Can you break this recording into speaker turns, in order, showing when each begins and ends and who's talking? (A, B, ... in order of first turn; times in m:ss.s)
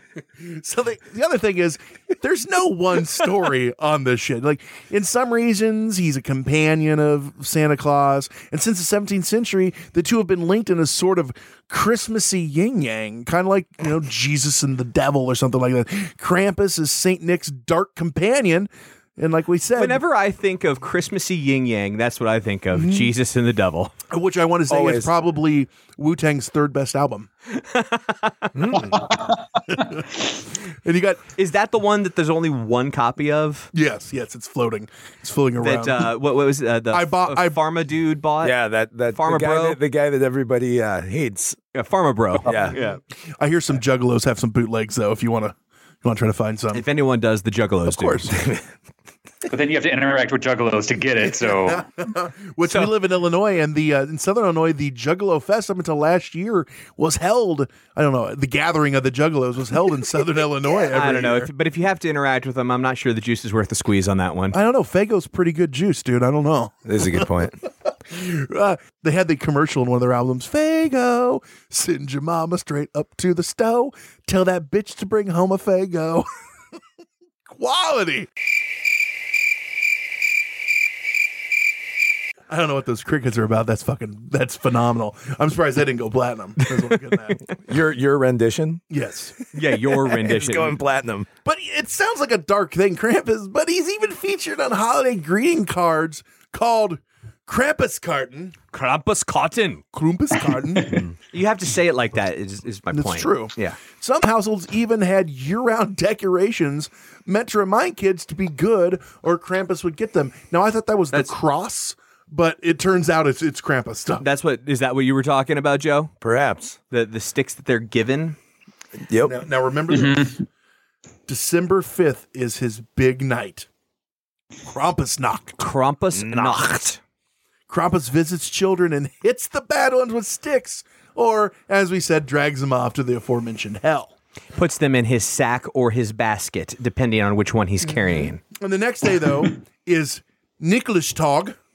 0:00.4-0:20.0 A
0:19.8-0:23.9 B
0:22.7-0:23.1 A
0:24.1-0:27.3 A
0:24.7-0:25.1 C
0:27.5-0:28.5 B
0:28.6-0:29.0 C
0:29.0-0:29.4 D
0:30.8-0:31.2 A
0:31.4-0:33.7 B
0:33.7-0:36.1 A
0:35.6-0:38.6 B
0:36.9-0:37.6 A
0:38.4-0:41.6 C
0:39.1-0:39.8 B
0:41.8-0:43.0 B
0:42.5-0:42.8 C
0:43.4-0:46.8 A
0:46.7-0:48.3 B
0:48.2-0:48.7 C
0:49.5-0:51.9 D
0:51.2-1:01.5 A
1:00.9-1:04.6 B
1:04.5-1:06.8 A
1:06.9-1:07.6 C
1:08.1-1:16.3 A
1:17.5-1:18.3 A
1:22.5-1:27.4 A
1:27.7-1:28.8 C
1:28.9-1:29.4 A
1:29.5-1:30.8 B
1:30.1-1:31.3 C
1:31.4-1:38.6 A
1:38.7-1:39.8 B
1:39.9-1:41.0 A
1:41.3-1:43.8 B
1:42.9-1:54.2 A
1:54.2-1:56.1 B
1:56.2-1:56.8 C
1:56.9-1:58.4 B
1:59.1-1:59.4 C
1:59.2-2:00.3 A
1:59.9-2:00.4 D
2:01.3-2:03.7 A
2:04.7-2:05.6 A
2:05.6-2:07.0 B
2:06.1-2:06.8 C
2:07.7-2:14.2 A
2:14.6-2:18.4 B
2:17.8-2:21.6 A